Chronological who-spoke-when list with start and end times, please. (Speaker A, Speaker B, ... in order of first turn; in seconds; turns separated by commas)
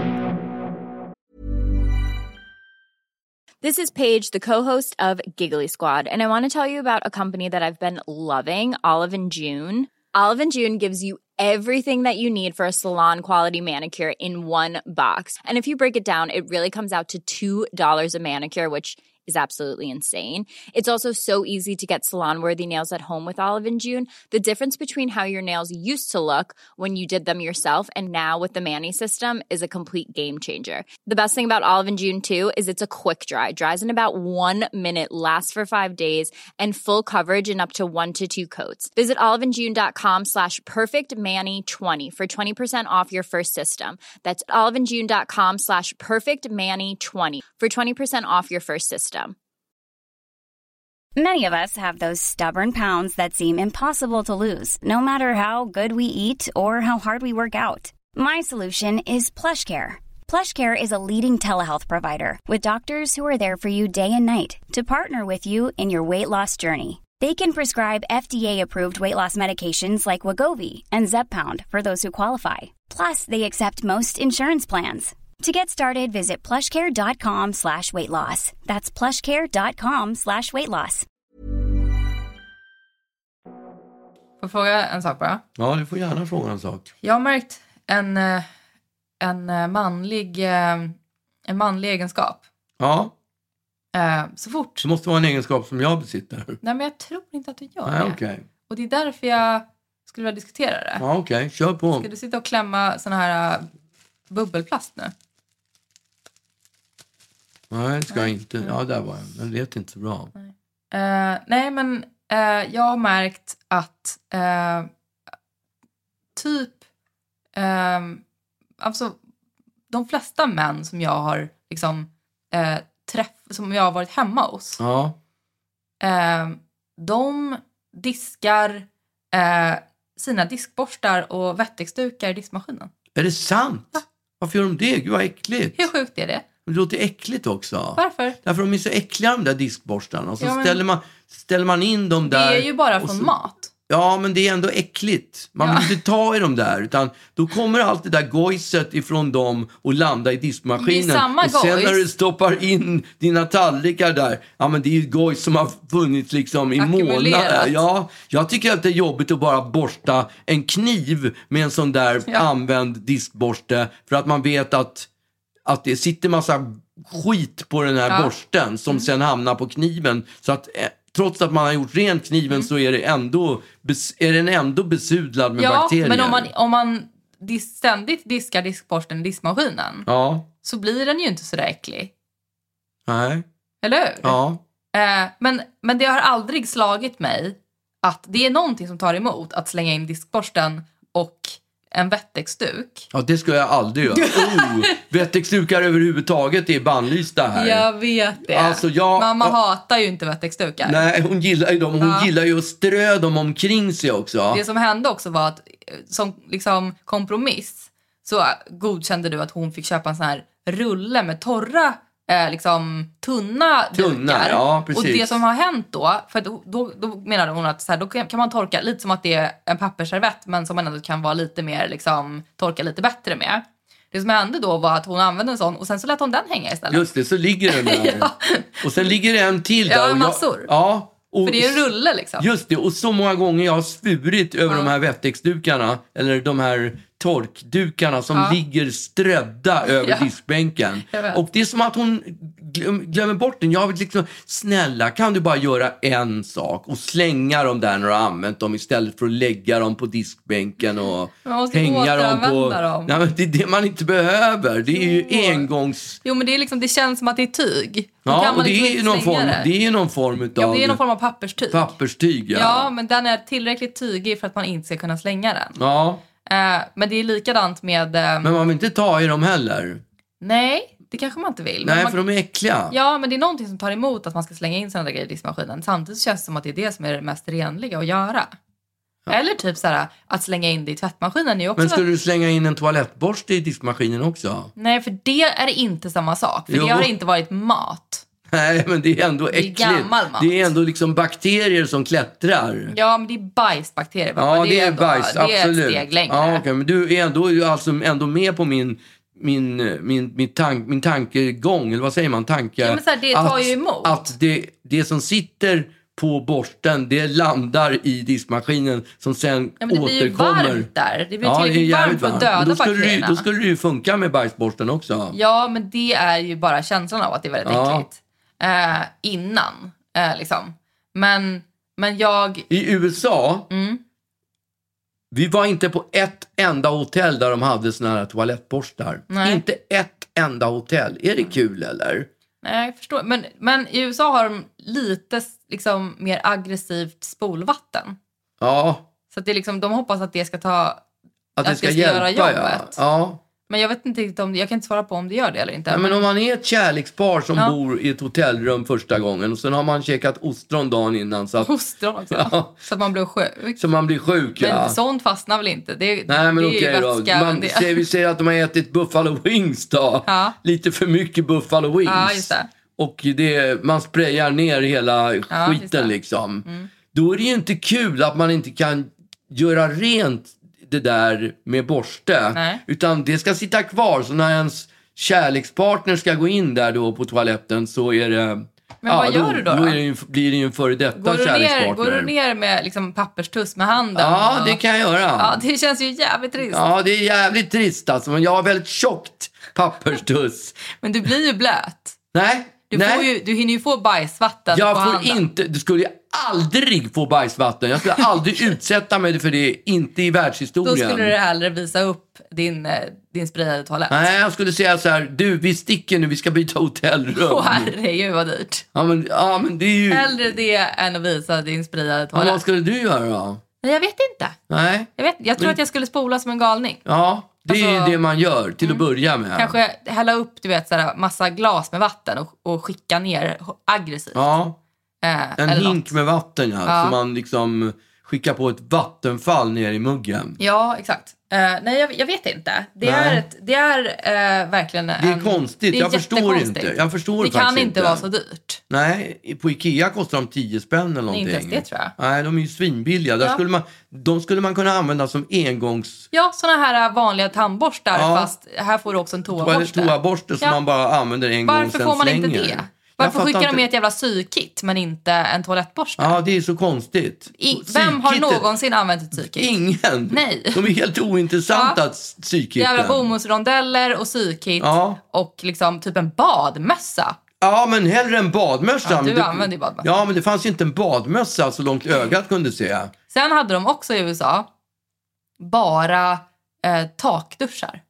Speaker A: 3.6-49.4, Speaker B: 51.2-81.1, Speaker C: 84.4-85.4, Speaker D: 85.6-86.9, Speaker C: 87.0-88.5, Speaker C: 89.2-91.0, Speaker C: 91.5-92.4, Speaker D: 92.8-93.1, Speaker C: 93.9-94.9, Speaker D: 94.8-96.6, Speaker C: 96.6-101.0, Speaker D: 97.9-98.5, Speaker D: 101.0-102.1, Speaker C: 102.0-103.7, Speaker C: 104.3-105.1, Speaker D: 107.7-110.3, Speaker C: 108.1-108.8, Speaker C: 110.3-114.9, Speaker C: 116.4-116.8, Speaker C: 117.6-118.2, Speaker C: 118.8-119.2, Speaker C: 119.9-124.8, Speaker D: 124.8-125.2, Speaker C: 126.0-132.9, Speaker D: 133.2-135.9, Speaker C: 135.8-136.4, Speaker D: 136.7-143.3, Speaker C: 138.0-138.4, Speaker C: 140.4-140.8, Speaker C: 142.3-143.7, Speaker D: 143.9-165.1, Speaker C: 145.6-146.0, Speaker C: 150.8-152.1, Speaker C: 156.8-157.8, Speaker D: 165.7-176.5, Speaker C: 175.6-180.1, Speaker D: 180.1-180.5, Speaker C: 180.6-182.1, Speaker D: 183.1-183.4, Speaker C: 183.8-184.4, Speaker D: 184.2-184.6, Speaker C: 184.9-193.1, Speaker D: 193.1-197.9, Speaker C: 194.1-195.0, Speaker C: 197.5-201.1, Speaker D: 198.4-199.6, Speaker D: 200.8-204.6, Speaker C: 202.0-202.3, Speaker C: 204.5-227.1, Speaker D: 213.9-215.4, Speaker D: 226.9-256.2, Speaker C: 227.7-229.2, Speaker C: 229.8-230.7, Speaker C: 231.4-232.5, Speaker C: 238.3-238.6, Speaker C: 239.9-240.3, Speaker C: 241.1-241.4, Speaker C: 251.4-253.2, Speaker C: 254.9-255.7, Speaker C: 256.2-259.7, Speaker D: 258.2-261.0, Speaker C: 260.6-261.9, Speaker D: 261.6-262.9, Speaker C: 262.5-265.8, Speaker D: 265.8-266.2, Speaker C: 266.5-268.5, Speaker D: 268.4-270.0, Speaker C: 270.4-272.2, Speaker D: 271.8-272.9, Speaker C: 272.9-278.5, Speaker C: 279.3-282.1, Speaker D: 281.8-284.7, Speaker C: 284.8-288.2, Speaker D: 286.7-287.1, Speaker D: 288.5-292.9, Speaker C: 289.5-290.7, Speaker C: 292.9-296.6, Speaker D: 294.4-310.9, Speaker C: 302.8-304.3, Speaker C: 309.8-313.4, Speaker D: 311.4-315.4, Speaker C: 315.3-322.7, Speaker D: 317.6-318.1, Speaker D: 322.7-323.7, Speaker C: 323.7-324.0, Speaker D: 325.3-332.3, Speaker C: 329.3-329.6, Speaker C: 332.6-338.2, Speaker D: 338.6-339.1, Speaker C: 339.3-341.0, Speaker D: 341.6-343.4, Speaker C: 341.6-343.0, Speaker C: 343.7-346.3, Speaker D: 345.9-351.7, Speaker C: 351.6-353.8, Speaker D: 352.3-352.8, Speaker D: 353.8-355.0, Speaker C: 354.6-358.1, Speaker D: 356.3-382.3, Speaker C: 360.3-360.6, Speaker C: 362.1-362.7, Speaker C: 365.5-366.9, Speaker C: 372.5-372.8, Speaker C: 379.0-380.0, Speaker C: 381.2-384.8, Speaker D: 384.1-385.6, Speaker C: 385.4-386.8, Speaker D: 386.7-390.8, Speaker C: 390.9-392.2, Speaker D: 392.3-393.3, Speaker C: 392.9-395.4, Speaker D: 394.7-401.4, Speaker C: 400.8-404.2, Speaker D: 404.1-407.9, Speaker C: 407.4-408.9, Speaker D: 408.9-410.6, Speaker C: 410.1-412.6, Speaker D: 412.3-413.6, Speaker C: 413.8-414.6, Speaker D: 414.7-415.8, Speaker C: 415.2-417.0, Speaker D: 417.1-419.8, Speaker C: 417.7-418.2, Speaker C: 418.8-424.5, Speaker D: 424.4-424.8, Speaker C: 425.2-426.2, Speaker D: 425.6-430.6, Speaker C: 426.9-427.2, Speaker C: 430.6-438.8, Speaker D: 433.0-433.4, Speaker D: 435.2-438.3, Speaker D: 438.9-446.3, Speaker C: 441.3-442.1, Speaker C: 446.3-450.8, Speaker D: 448.1-448.5, Speaker D: 449.5-453.8, Speaker C: 451.6-456.4, Speaker D: 456.2-458.7, Speaker C: 457.6-459.7, Speaker D: 459.3-463.3, Speaker C: 460.3-460.9, Speaker C: 461.7-462.0, Speaker C: 462.8-467.4, Speaker D: 464.8-465.2, Speaker D: 467.6-473.1, Speaker C: 469.0-470.1, Speaker C: 473.3-474.7, Speaker C: 475.6-478.0